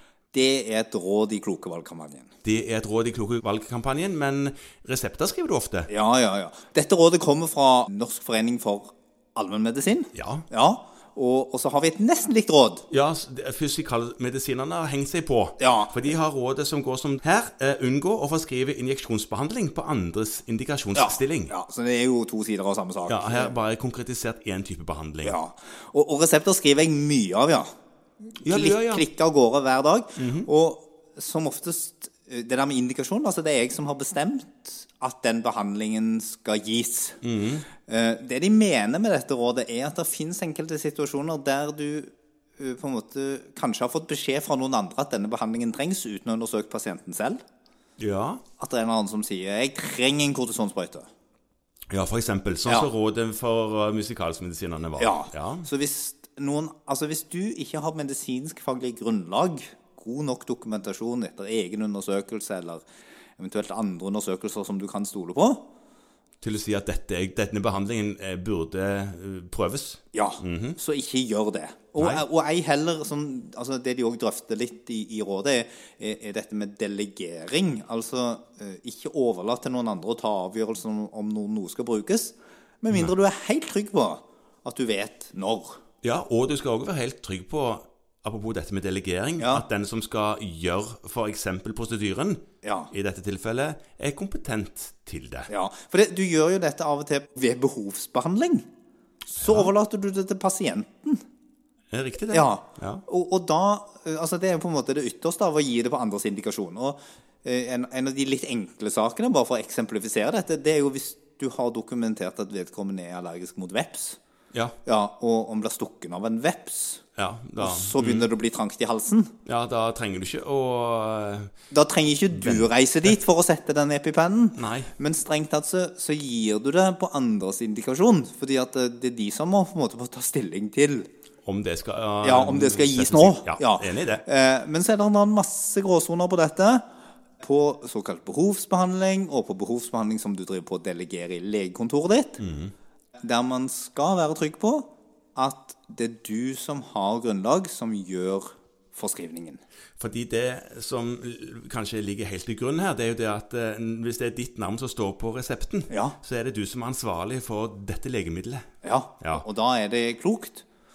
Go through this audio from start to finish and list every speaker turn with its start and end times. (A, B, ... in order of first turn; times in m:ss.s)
0:00.3-0:02.3 A
0:02.4-0:05.9 B
0:05.9-0:12.8 A
0:10.1-0:10.4 B
0:12.9-0:21.5 B
0:15.6-0:16.1 A
0:20.9-0:23.6 A
0:23.1-0:25.4 B
0:25.2-0:27.7 A
0:28.4-0:37.2 A
0:28.4-0:29.0 B
0:30.2-0:30.5 B
0:37.2-0:37.7 B
0:37.8-0:47.4 A
0:48.0-0:48.4 B
0:48.6-0:51.1 A
0:51.9-0:55.7 B
0:52.6-0:52.9 A
0:55.0-1:02.8 A
1:03.4-1:05.6 A
1:06.4-1:10.8 B
1:10.1-1:25.8 A
1:12.0-1:12.2 B
1:26.0-1:35.5 B
1:29.4-1:29.6 A
1:32.6-1:32.9 A
1:35.5-1:38.6 A
1:39.3-1:41.2 A
1:39.4-1:39.7 B
1:41.9-1:43.0 B
1:42.3-1:54.2 A
1:54.8-1:57.0 A
1:57.2-1:58.3 B
1:57.6-1:59.3 A
1:59.4-2:01.5 B
2:01.7-2:11.1 A
2:02.3-2:03.1 B
2:04.6-2:04.9 B
2:11.4-2:14.2 B
2:12.2-2:16.8 A
2:17.4-2:22.4 A
2:22.4-2:22.7 B
2:23.2-2:29.6 A
2:30.0-2:38.6 B
2:35.9-2:36.2 A
2:38.8-2:40.6 A